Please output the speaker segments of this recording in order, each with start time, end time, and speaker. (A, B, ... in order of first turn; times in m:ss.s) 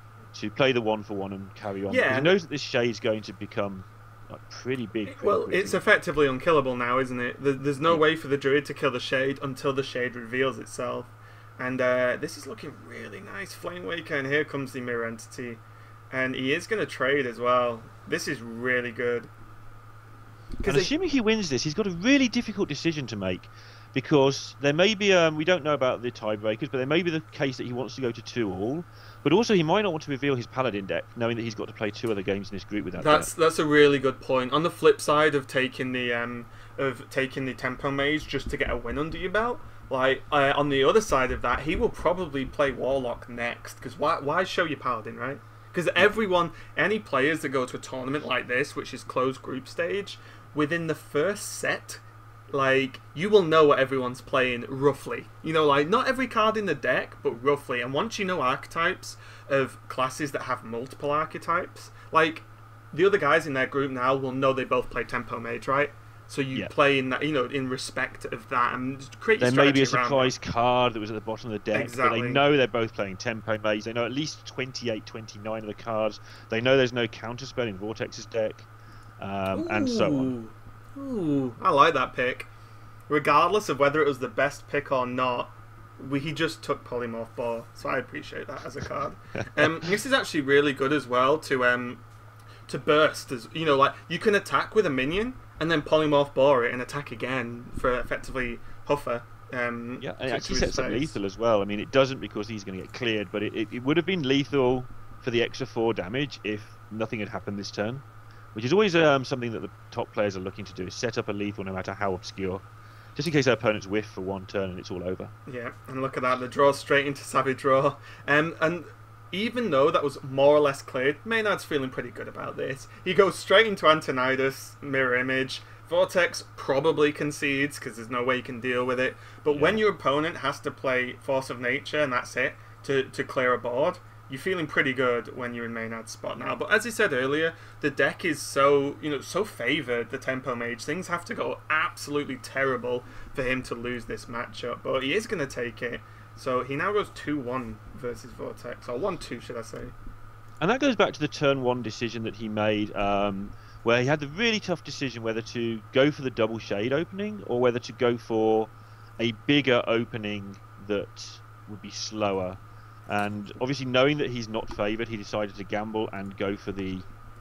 0:00.3-0:05.8 A
0:01.9-0:02.4 B
0:05.1-0:19.3 B
0:20.6-0:20.9 B
0:20.7-0:33.3 A
0:33.0-1:10.3 B
1:09.4-1:18.7 A
1:11.7-1:12.4 B
1:19.2-1:20.3 A
1:19.5-1:22.5 B
1:23.1-1:32.0 B
1:29.4-1:29.9 A
1:32.7-1:41.2 B
1:40.0-1:52.6 A
1:53.2-1:55.3 A
1:55.5-2:29.9 B
2:09.5-2:09.8 A
2:30.6-2:47.1 A